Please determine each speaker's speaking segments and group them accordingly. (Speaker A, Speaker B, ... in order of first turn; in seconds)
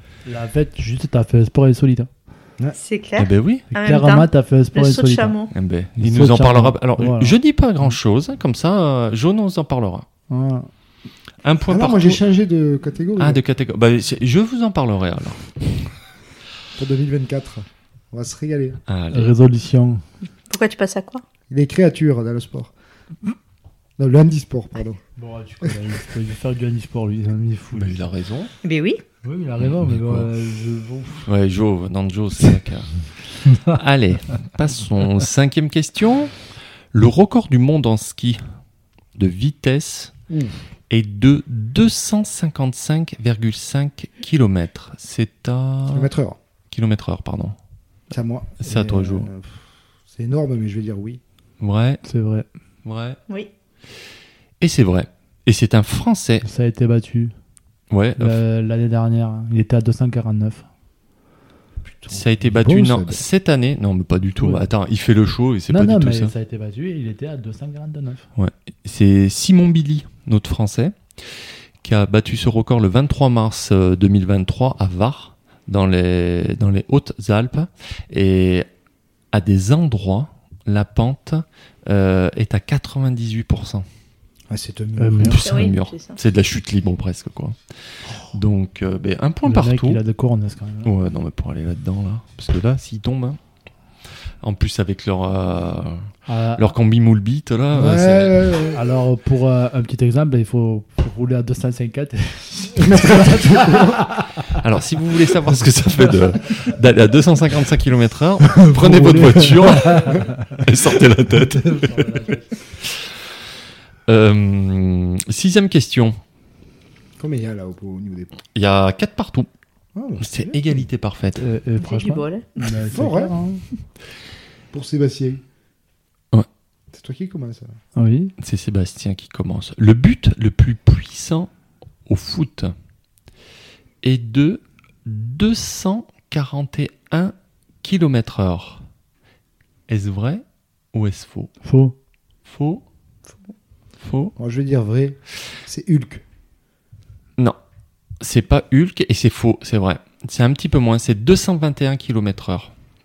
Speaker A: 0.2-2.1, 3.8-5.3, 6.0-7.4, 10.3-10.7, 19.1-20.0, 25.2-28.0, 29.2-31.3, 52.0-52.5, 56.4-57.3, 58.2-60.6, 65.7-68.2, 85.0-85.5, 89.4-90.9, 96.3-96.7, 98.7-104.4, 108.6-110.6, 111.3-112.6, 121.3-123.7, 128.0-128.3, 141.6-141.9
Speaker B: 2.8-5.5, 20.5-21.2, 28.6-29.0, 85.4-86.2, 121.8-122.5, 143.3-143.5
Speaker C: 3.2-3.7, 5.5-10.1, 11.4-12.2, 13.2-15.6, 18.9-19.3, 27.7-28.5, 29.6-30.3, 31.3-36.3, 36.9-38.4, 39.1-40.1, 40.9-46.1, 46.7-47.5, 48.6-49.3, 51.6-52.0, 52.8-53.2, 54.6-56.4, 57.9-58.4, 62.1-66.3, 68.4-71.0, 71.8-78.7, 79.3-83.8, 85.2-87.6, 88.3-90.0, 90.8-93.4, 94.4-98.5, 104.6-112.0, 114.1-116.2, 118.5-119.5, 120.2-121.4, 128.4-131.5, 132.1-132.7, 134.0-138.8, 139.9-141.5, 142.4-142.8, 144.0-144.3, 148.2-152.7
Speaker D: 11.7-13.4, 16.8-18.8, 21.5-22.7, 24.0-25.0, 40.3-40.5, 45.9-46.4, 48.1-51.2, 61.9-63.2, 84.5-85.4, 97.7-98.8, 102.8-104.1, 117.2-118.3, 119.9-120.8, 122.9-123.4, 124.7-125.4, 126.9-127.8, 144.4-146.2